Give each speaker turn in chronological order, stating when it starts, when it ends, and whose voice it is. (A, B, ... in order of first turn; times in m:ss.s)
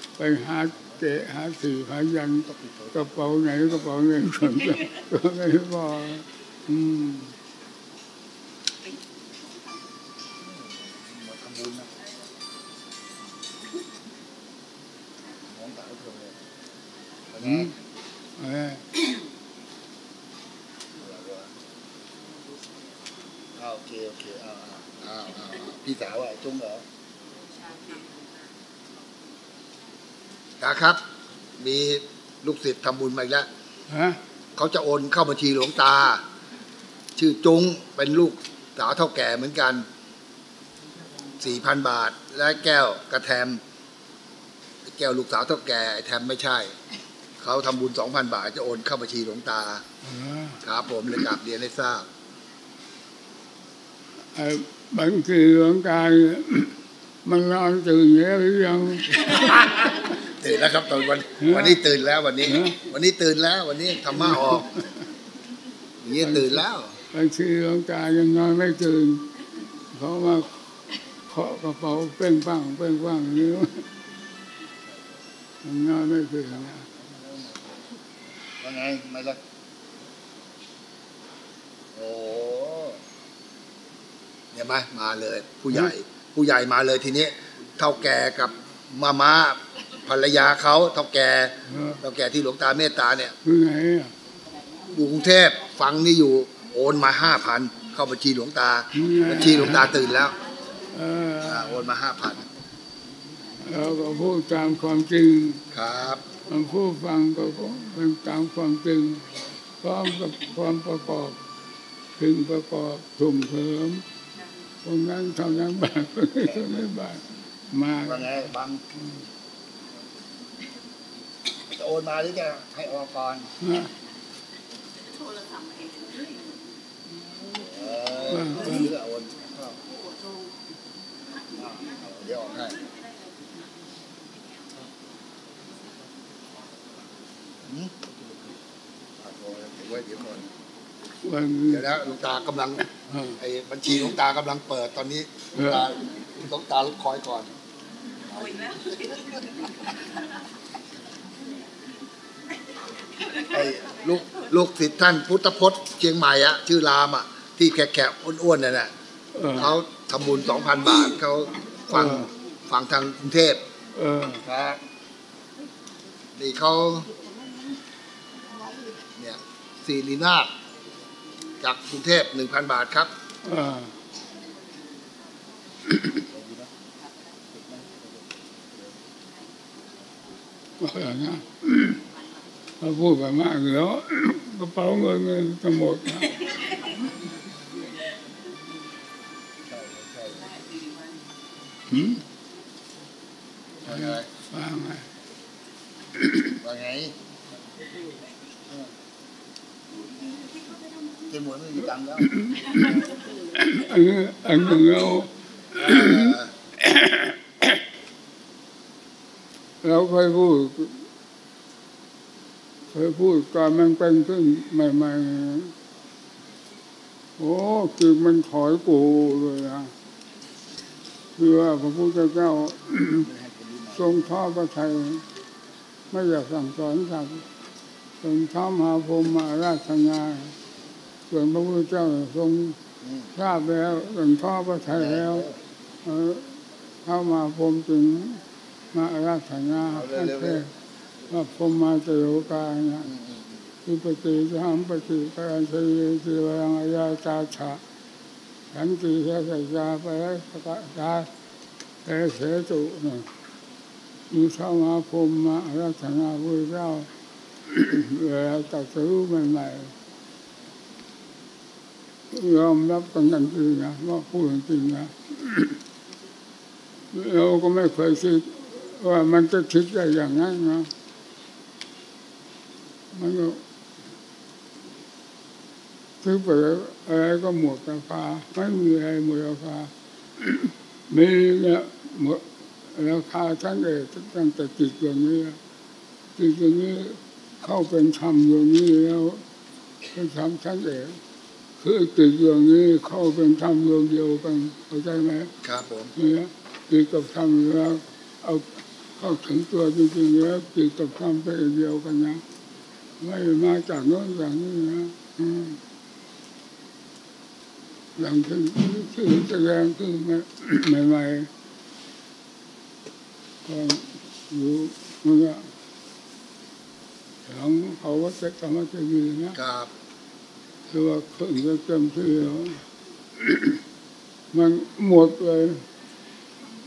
0:00.2-0:07.3 A
0:02.5-0:03.1 B
0:10.4-0:12.0 B
0:15.4-0:16.4 B
0:17.3-0:17.7 B
0:17.4-0:17.8 A
0:18.4-0:18.9 A
0:21.0-0:21.5 B
0:23.6-0:26.8 B
0:30.6-0:31.0 B
0:31.6-0:33.5 B
0:33.9-0:34.2 A
0:34.6-0:36.2 B
0:37.2-0:39.9 B
0:41.4-0:43.6 B
0:44.8-0:46.8 B
0:47.4-0:49.8 B
0:50.0-0:50.6 A
0:50.6-0:52.1 B
0:54.3-0:59.5 A
0:59.3-1:04.7 B
1:01.4-1:01.8 A
1:02.4-1:02.8 A
1:04.3-1:04.9 A
1:06.0-1:07.0 B
1:06.2-1:09.4 A
1:09.9-1:10.5 A
1:11.3-1:13.9 A
1:15.6-1:16.9 A
1:17.1-1:17.6 B
1:18.6-1:19.4 B
1:21.9-1:23.0 B
1:24.5-1:33.4 B
1:31.7-1:32.0 A
1:33.4-1:34.1 A
1:34.9-1:40.4 B
1:38.9-1:39.9 A
1:40.9-1:41.8 A
1:41.4-1:42.5 B
1:43.6-1:45.6 A
1:45.7-1:46.2 B
1:46.5-1:49.3 A
1:49.8-1:51.4 A
1:52.2-1:54.0 A
1:54.8-1:58.5 A
1:58.0-1:58.8 B
2:01.7-2:03.5 B
2:03.6-2:03.9 A
2:05.2-2:06.4 C
2:07.5-2:09.8 B
2:08.3-2:08.9 A
2:11.6-2:12.8 B
2:17.7-2:18.6 B
2:19.2-2:20.5 B
2:21.2-2:21.9 A
2:21.7-2:22.9 B
2:22.9-2:23.4 A
2:23.4-2:27.5 B
2:25.6-2:25.9 A
2:28.3-2:29.4 C
2:33.5-2:38.9 B
2:39.4-2:39.8 A
2:39.5-2:43.6 B
2:41.9-2:42.3 A
2:43.9-2:44.4 A
2:44.3-2:44.8 B
2:46.4-2:47.1 B
2:49.2-2:50.5 B
2:51.6-2:53.1 B
2:53.4-2:54.0 A
2:56.3-2:56.7 B
2:57.5-2:58.8 B
3:00.8-3:02.0 A
3:02.8-3:06.5 A
3:09.6-3:10.5 B
3:11.9-3:12.2 A
3:13.8-3:14.3 B
3:13.9-3:15.1 A
3:16.6-3:17.2 B
3:21.3-3:22.6 B
3:22.2-3:27.8 A
3:25.8-3:26.5 B
3:29.8-3:31.0 A
3:32.9-3:35.7 A
3:37.4-3:39.9 A
3:41.4-3:43.3 A
3:43.2-3:44.1 B
3:43.9-3:45.2 A
3:46.1-3:47.5 A
3:48.2-3:50.6 A
3:51.3-3:52.8 A
3:53.0-3:53.3 B
3:53.3-3:55.5 A
3:54.9-3:55.6 B
3:56.0-3:58.4 A
3:58.9-4:00.7 A
3:59.9-4:00.7 B
4:01.3-4:03.1 A
4:03.0-4:03.6 B
4:03.9-4:07.8 A
4:08.7-4:11.3 A
4:12.0-4:13.3 A
4:14.3-4:17.1 A
4:17.7-4:19.9 A
4:22.3-4:25.8 A
4:27.1-4:30.9 A
4:33.1-4:33.6 A
4:36.2-4:45.6 A
4:46.4-4:49.4 A
4:50.1-4:51.2 A
4:51.8-4:55.5 A
4:55.6-4:56.1 B
4:56.2-5:02.4 A
5:03.2-5:05.8 A
5:08.2-5:11.5 A
5:13.6-5:15.7 A
5:17.5-5:19.6 A
5:19.6-5:19.9 B
5:20.9-5:22.8 A
5:23.4-5:23.8 A
5:24.5-5:25.9 A